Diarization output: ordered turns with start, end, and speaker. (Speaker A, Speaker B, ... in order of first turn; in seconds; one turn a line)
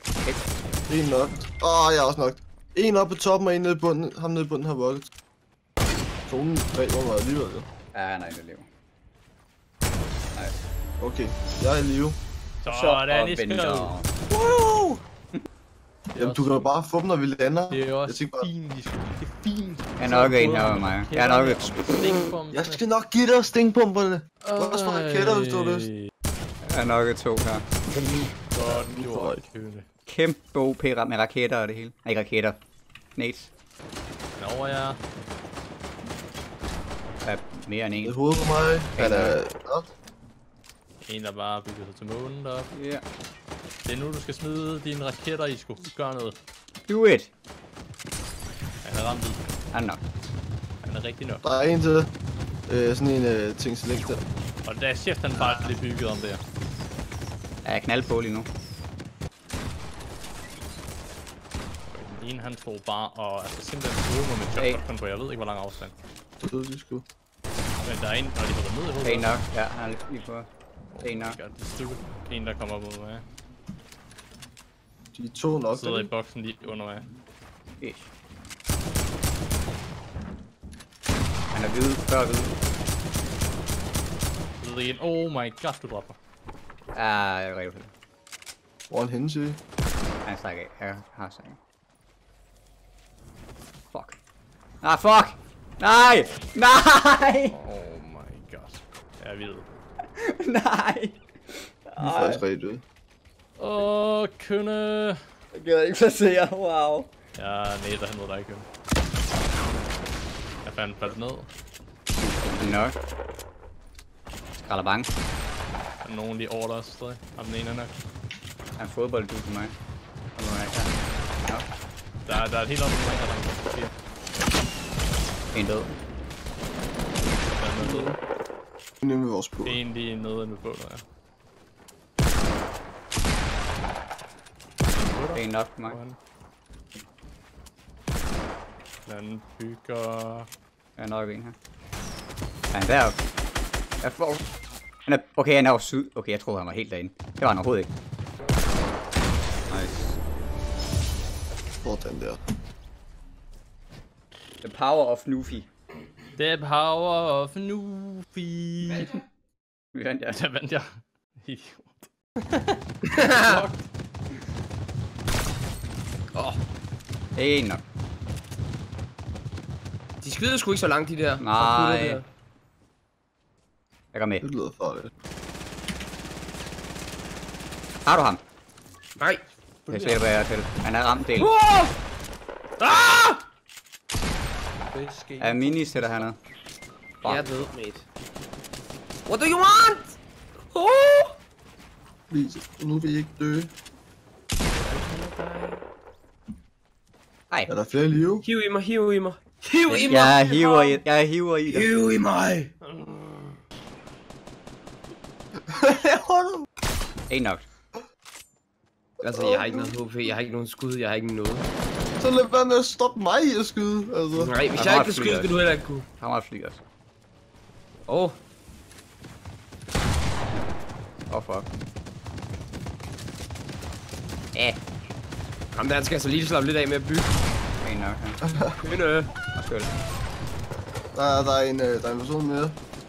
Speaker A: 0.9-5.1
Speaker A: 6.3-7.7
Speaker B: 7.9-8.7
Speaker B: 10.3-10.6
Speaker A: 11.0-12.2
Speaker C: 12.6-13.9
Speaker B: 12.7-14.1
Speaker A: 14.3-15.0
Speaker A: 16.1-18.5
Speaker C: 16.1-16.7
Speaker C: 17.7-22.8
Speaker B: 20.0-21.8
Speaker A: 22.5-25.9
Speaker C: 24.4-26.1
Speaker B: 26.6-27.6
Speaker D: 27.9-28.3
Speaker C: 28.5-29.9
Speaker A: 28.5-29.4
Speaker B: 30.1-32.6
Speaker B: 33.1-33.5
Speaker C: 34.4-35.0
Speaker B: 37.2-38.2
Speaker A: 38.0-39.9
Speaker B: 39.0-39.4
Speaker C: 41.0-42.7
Speaker B: 42.7-43.0
Speaker C: 43.8-46.4
Speaker B: 46.9-47.3
Speaker C: 48.8-49.5
Speaker B: 49.7-50.0
Speaker C: 50.8-51.4
Speaker A: 51.4-52.1
Speaker A: 52.7-54.2
Speaker C: 54.6-56.4
Speaker B: 57.6-58.5
Speaker C: 61.9-65.9
Speaker A: 66.4-67.0
Speaker C: 67.8-69.3
Speaker B: 69.0-70.5
Speaker C: 70.9-73.2
Speaker B: 71.0-71.4
Speaker A: 75.1-76.1
Speaker C: 75.7-77.0
Speaker B: 77.8-78.1
Speaker B: 81.5-82.5
Speaker C: 84.6-86.2
Speaker B: 86.9-87.9
Speaker A: 88.9-89.6
Speaker B: 90.2-91.6
Speaker B: 93.9-94.2
Speaker B: 94.8-97.5
Speaker C: 97.5-99.7
Speaker B: 100.1-102.4
Speaker A: 102.0-102.8
Speaker C: 103.6-105.2
Speaker B: 105.5-107.1
Speaker C: 107.3-108.7
Speaker C: 110.6-111.5
Speaker B: 112.2-112.9
Speaker B: 114.7-115.1
Speaker C: 116.0-117.9
Speaker B: 118.8-119.7
Speaker B: 120.3-121.6
Speaker C: 122.2-123.9
Speaker B: 125.5-125.9
Speaker C: 127.5-128.2
Speaker A: 129.0-129.8
Speaker C: 129.6-131.0
Speaker C: 134.9-136.2
Speaker B: 135.3-136.0
Speaker C: 139.1-140.5
Speaker B: 141.0-141.5
Speaker B: 142.7-143.2
Speaker B: 144.0-144.4
Speaker B: 145.1-147.9
Speaker B: 149.7-150.2
Speaker A: 151.8-152.4
Speaker B: 154.6-155.7
Speaker C: 156.3-159.1
Speaker B: 159.9-160.4
Speaker C: 160.3-163.9
Speaker D: 163.0-163.6
Speaker D: 166.3-166.6
Speaker B: 167.3-167.8
Speaker D: 170.2-172.2
Speaker B: 171.4-172.2
Speaker B: 174.1-174.4
Speaker A: 174.4-175.1
Speaker B: 178.0-178.4
Speaker D: 179.2-179.5
Speaker C: 179.9-180.2
Speaker B: 179.9-181.5
Speaker D: 181.3-181.9
Speaker D: 182.8-183.4
Speaker D: 184.9-185.4
Speaker B: 185.4-186.4
Speaker B: 187.2-187.7
Speaker D: 187.2-188.1
Speaker D: 189.2-190.2
Speaker D: 190.7-191.4
Speaker A: 192.3-193.7
Speaker D: 194.8-195.8
Speaker A: 197.7-198.4
Speaker D: 198.4-201.0
Speaker B: 199.9-201.9
Speaker D: 201.7-202.7
Speaker C: 202.8-203.5
Speaker A: 205.7-206.7
Speaker B: 207.3-207.6
Speaker D: 209.2-211.7
Speaker A: 209.2-209.9
Speaker A: 212.2-214.5
Speaker D: 214.3-216.1
Speaker B: 214.7-215.5
Speaker B: 216.2-216.8
Speaker D: 218.1-218.4
Speaker B: 221.3-221.7
Speaker B: 224.5-224.8
Speaker D: 225.7-227.4
Speaker B: 227.8-228.4
Speaker A: 228.4-228.8
Speaker D: 228.8-229.3
Speaker B: 229.5-229.9
Speaker A: 231.1-232.8